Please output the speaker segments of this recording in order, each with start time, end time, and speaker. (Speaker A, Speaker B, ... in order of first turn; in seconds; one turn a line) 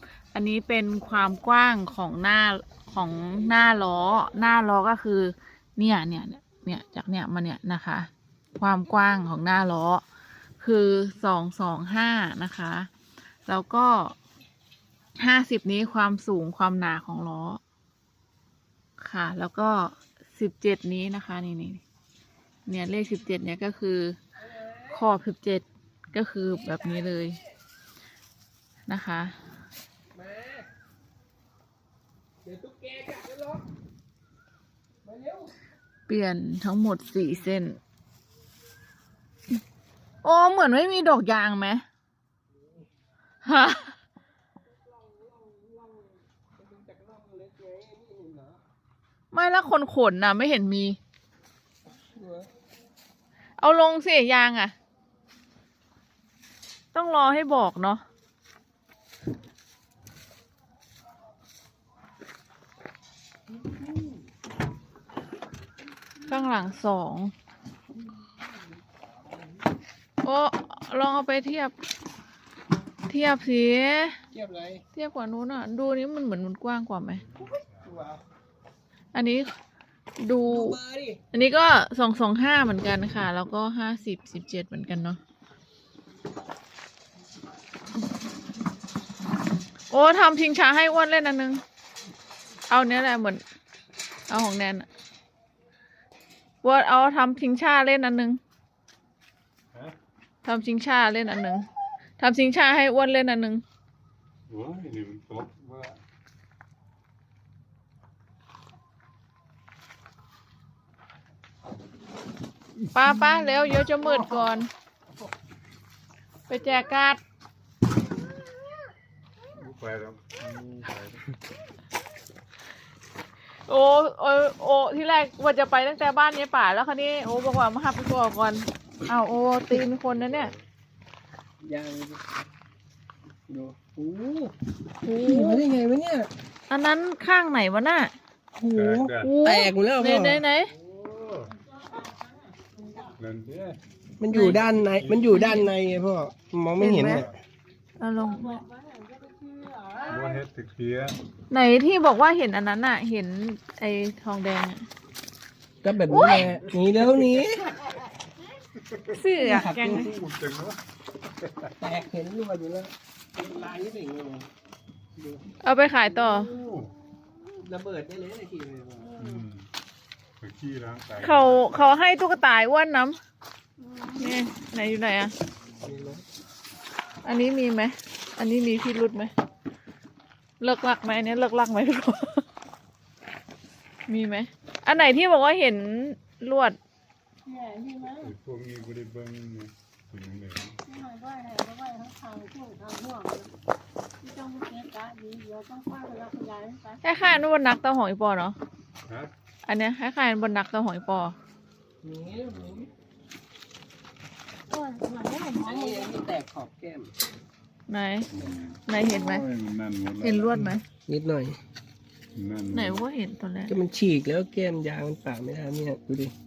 Speaker A: 0.3-10.0
Speaker A: 10.6-12.9
Speaker A: 13.5-14.2
Speaker A: 15.2-17.6
Speaker A: 19.0-21.8
Speaker A: 22.7-24.2
Speaker B: 24.4-25.1
Speaker A: 24.9-27.4
Speaker B: 26.4-27.4
Speaker A: 28.9-29.4
Speaker B: 30.1-30.7
Speaker B: 32.4-33.7
Speaker B: 35.0-35.5
Speaker A: 36.1-37.8
Speaker A: 40.2-41.8
Speaker A: 43.4-44.0
Speaker B: 44.9-48.6
Speaker A: 49.3-51.0
Speaker B: 51.9-52.5
Speaker A: 53.6-54.8
Speaker A: 56.9-58.0
Speaker A: 66.3-67.3
Speaker A: 70.2-71.8
Speaker A: 73.1-74.2
Speaker B: 74.3-74.8
Speaker A: 75.0-77.3
Speaker C: 77.3-77.9
Speaker B: 77.8-78.2
Speaker A: 79.1-79.5
Speaker A: 80.2-80.8
Speaker B: 80.5-81.2
Speaker A: 81.3-85.2
Speaker A: 89.9-91.6
Speaker A: 92.7-93.4
Speaker A: 94.3-94.9
Speaker A: 96.6-98.4
Speaker A: 100.5-101.7
Speaker A: 102.2-103.6
Speaker C: 104.5-106.0
Speaker A: 112.9-114.7
Speaker A: 116.5-117.2
Speaker C: 119.5-121.3
Speaker A: 123.7-130.5
Speaker C: 130.0-130.6
Speaker B: 131.6-132.3
Speaker B: 133.5-134.5
Speaker A: 135.0-135.6
Speaker B: 135.1-136.3
Speaker A: 136.7-138.1
Speaker B: 138.6-140.4
Speaker C: 138.7-139.3
Speaker A: 139.2-140.7
Speaker C: 140.7-141.5
Speaker C: 143.2-143.8
Speaker B: 144.2-147.4
Speaker A: 144.3-144.6
Speaker C: 144.4-145.4
Speaker A: 145.3-145.7
Speaker A: 146.8-147.3
Speaker C: 147.1-147.4
Speaker A: 148.0-148.6
Speaker D: 148.5-150.4
Speaker C: 150.1-151.2
Speaker A: 151.5-154.8
Speaker B: 155.8-157.8
Speaker A: 156.1-156.4
Speaker C: 156.3-157.0
Speaker C: 158.8-159.2
Speaker A: 159.1-160.1
Speaker B: 159.4-160.2
Speaker C: 159.9-160.8
Speaker B: 161.8-164.5
Speaker B: 165.2-165.4
Speaker A: 165.6-166.5
Speaker B: 166.1-166.4
Speaker C: 166.4-166.9
Speaker B: 167.5-169.2
Speaker D: 169.1-169.4
Speaker C: 169.2-169.7
Speaker C: 170.4-171.8
Speaker A: 171.2-173.2
Speaker D: 173.8-174.2
Speaker A: 174.2-175.3
Speaker B: 175.8-176.2
Speaker A: 177.2-179.3
Speaker A: 180.6-182.4
Speaker A: 184.1-186.8
Speaker D: 187.4-188.3
Speaker C: 188.1-190.8
Speaker D: 190.9-193.5
Speaker D: 194.2-197.0
Speaker A: 197.0-198.6
Speaker C: 199.1-199.3
Speaker A: 199.7-201.3
Speaker B: 202.0-202.9
Speaker D: 204.7-206.1
Speaker B: 205.5-207.1
Speaker A: 207.9-208.3
Speaker C: 208.3-210.8
Speaker A: 208.9-209.5
Speaker A: 210.2-210.8
Speaker B: 211.1-211.6
Speaker C: 212.3-213.0
Speaker A: 212.7-213.8
Speaker B: 213.7-216.3